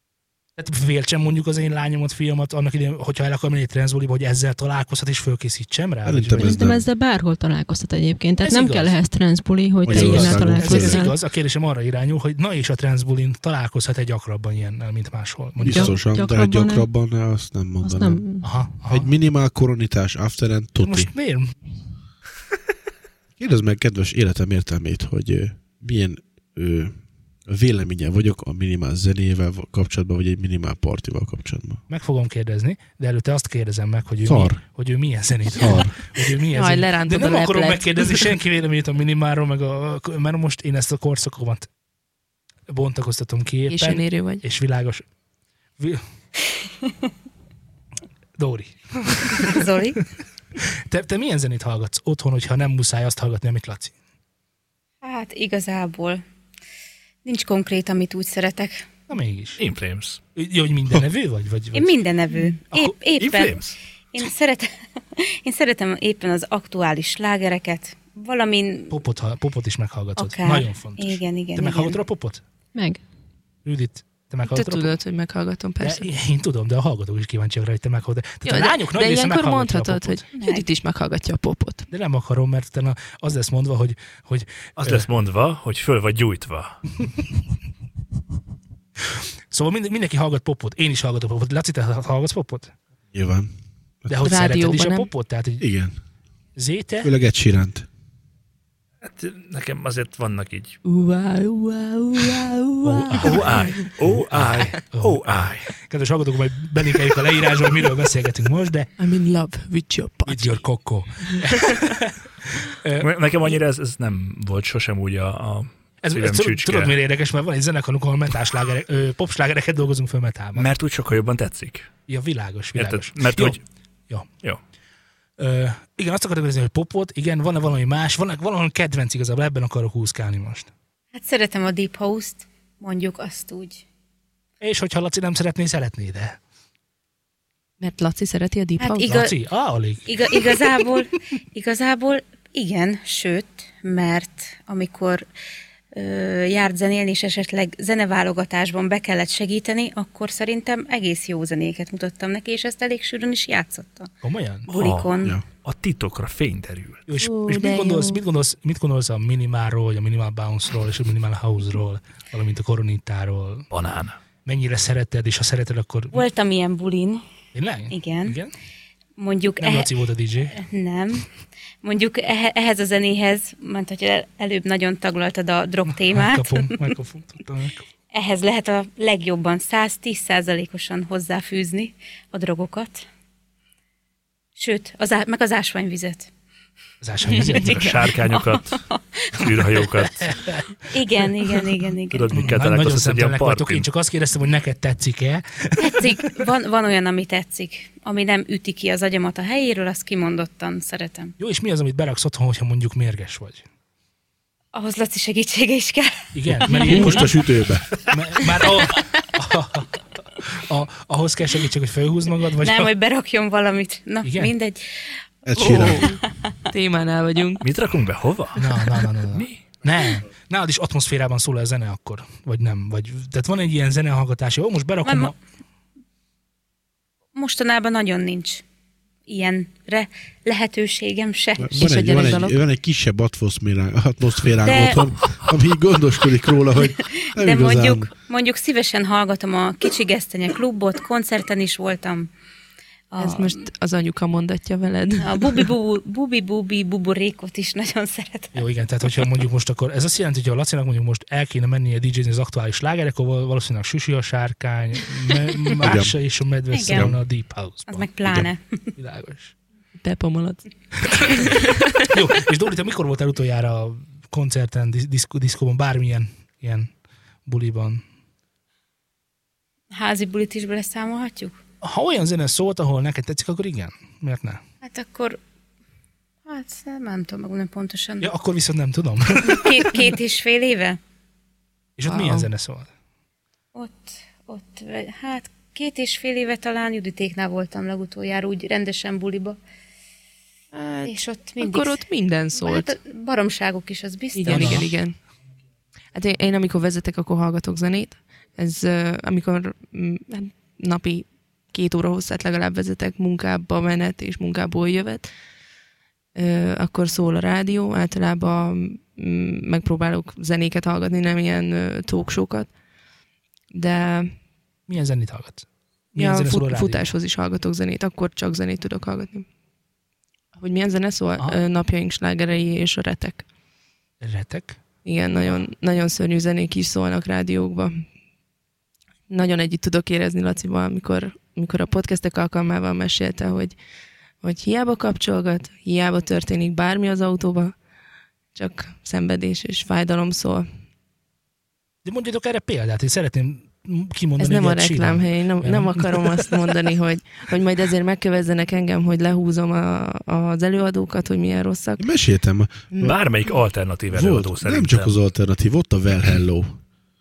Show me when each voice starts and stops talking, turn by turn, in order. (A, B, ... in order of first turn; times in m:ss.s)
0:00.6-0:06.6 A
0:06.0-0:06.8 B
0:06.4-0:11.2 C
0:08.4-0:09.0 A
0:09.8-0:11.0 B
0:09.9-0:15.9 A
0:15.6-0:18.2 B
0:15.7-0:16.9 C
0:17.8-0:18.5 C
0:18.4-0:19.1 A
0:18.9-0:21.1 B
0:20.8-0:21.5 A
0:23.4-0:31.8 B
0:31.9-0:41.7 A
0:34.2-0:34.6 B
0:35.5-0:35.9 B
0:36.5-0:38.3 D
0:42.7-0:45.0 A
0:43.7-0:44.4 D
0:48.4-0:49.6 A
0:49.4-0:50.0 E
0:50.6-0:53.9 A
0:55.0-0:56.2 E
0:57.2-0:58.9 E
0:59.1-0:59.6 A
0:59.6-1:00.2 F
1:00.3-1:02.0 A
1:01.7-1:08.9 E
1:03.2-1:03.8 F
1:08.9-1:12.4 A
1:10.2-1:12.0 E
1:12.7-1:13.0 C
1:13.6-1:14.9 A
1:14.5-1:16.0 D
1:15.8-1:20.2 A
1:18.4-1:21.8 D
1:20.3-1:20.6 E
1:21.9-1:25.1 A
1:24.8-1:26.8 F
1:29.5-1:32.7 A
1:33.1-1:33.5 B
1:34.0-1:34.3 B
1:34.1-1:35.6 A
1:34.2-1:35.1 D
1:35.6-1:36.0 B
1:36.6-1:37.1 A
1:37.0-1:37.9 B
1:39.0-1:40.8 F
1:40.8-1:43.9 D
1:42.8-1:48.9 A
1:43.1-1:45.7 F
1:49.0-1:50.6 D
1:50.2-1:53.1 A
1:53.0-1:57.0 F
1:56.0-2:00.7 A
2:00.5-2:01.9 F
2:02.1-2:04.3 A
2:02.7-2:03.6 F
2:05.4-2:10.7 A
2:11.1-2:13.8 E
2:14.6-2:16.4 A
2:17.8-2:19.2 D
2:18.8-2:19.3 E
2:19.1-2:20.5 A
2:20.1-2:25.2 E
2:25.9-2:34.1 E
2:34.2-2:34.7 A
2:34.7-2:35.4 E
2:34.7-2:35.1 F
2:35.6-2:37.0 F
2:37.1-2:43.7 A
2:37.2-2:38.2 D
2:43.7-2:44.2 F
2:44.4-2:46.2 A
2:46.1-2:47.2 E
2:47.5-2:48.5 A
2:47.9-2:48.4 E
2:49.2-2:49.9 E
2:49.6-2:50.5 A
2:50.5-2:51.3 E
2:51.8-2:56.9 E
2:56.0-2:57.8 A
2:58.1-3:03.0 E
3:04.6-3:06.3 E
3:07.0-3:08.0 A
3:07.2-3:09.5 E
3:07.5-3:08.8 F
3:09.3-3:10.3 F
3:10.2-3:10.6 A
3:10.9-3:12.5 E
3:12.1-3:13.9 F
3:12.3-3:16.2 A
3:15.8-3:21.3 E
3:21.4-3:23.6 A
3:24.7-3:27.2 E
3:26.3-3:27.4 A
3:26.7-3:28.0 B
3:28.1-3:32.9 A
3:32.6-3:34.8 E
3:34.2-3:34.5 A
3:35.4-3:36.1 B
3:35.5-3:37.6 D
3:36.0-3:36.7 E
3:37.6-3:39.6 F
3:38.6-3:45.3 A
3:45.0-3:45.3 E
3:47.3-3:48.6 E
3:49.3-3:52.2 E
3:51.6-3:58.1 B
3:51.7-3:52.6 D
3:54.6-3:55.2 E
3:56.8-4:02.3 E
4:03.1-4:03.6 E
4:03.2-4:05.7 D
4:05.2-4:08.6 E
4:08.5-4:18.4 A
4:15.8-4:16.2 B
4:16.7-4:17.1 E
4:16.9-4:17.2 B
4:17.9-4:18.9 E
4:19.0-4:19.5 A
4:20.0-4:22.1 D
4:22.1-4:26.9 A
4:27.4-4:28.0 A
4:29.9-4:31.6 E
4:31.8-4:34.6 A
4:34.8-4:35.4 E
4:36.4-4:38.3 E
4:38.2-4:40.1 A
4:39.4-4:41.0 E
4:42.0-4:42.9 A
4:42.1-4:42.5 D
4:43.7-4:49.6 E
4:50.7-4:52.9 D
4:51.0-4:52.0 E
4:52.6-4:54.8 E
4:54.3-4:55.2 D
4:54.4-4:54.8 A
4:56.1-5:05.3 D
5:06.3-5:12.7 D
5:13.7-5:14.3 D
5:14.9-5:17.1 A
5:16.2-5:19.4 D
5:20.5-5:23.4 D
5:24.2-5:24.8 A
5:25.0-5:28.1 D
5:29.3-5:33.8 D
5:34.4-5:37.8 D
5:38.5-5:40.7 D
5:42.0-5:46.6 A
5:44.4-5:52.0 D
5:52.0-5:52.9 B
5:52.9-5:53.2 D
5:53.0-5:55.2 F
5:54.1-5:56.8 B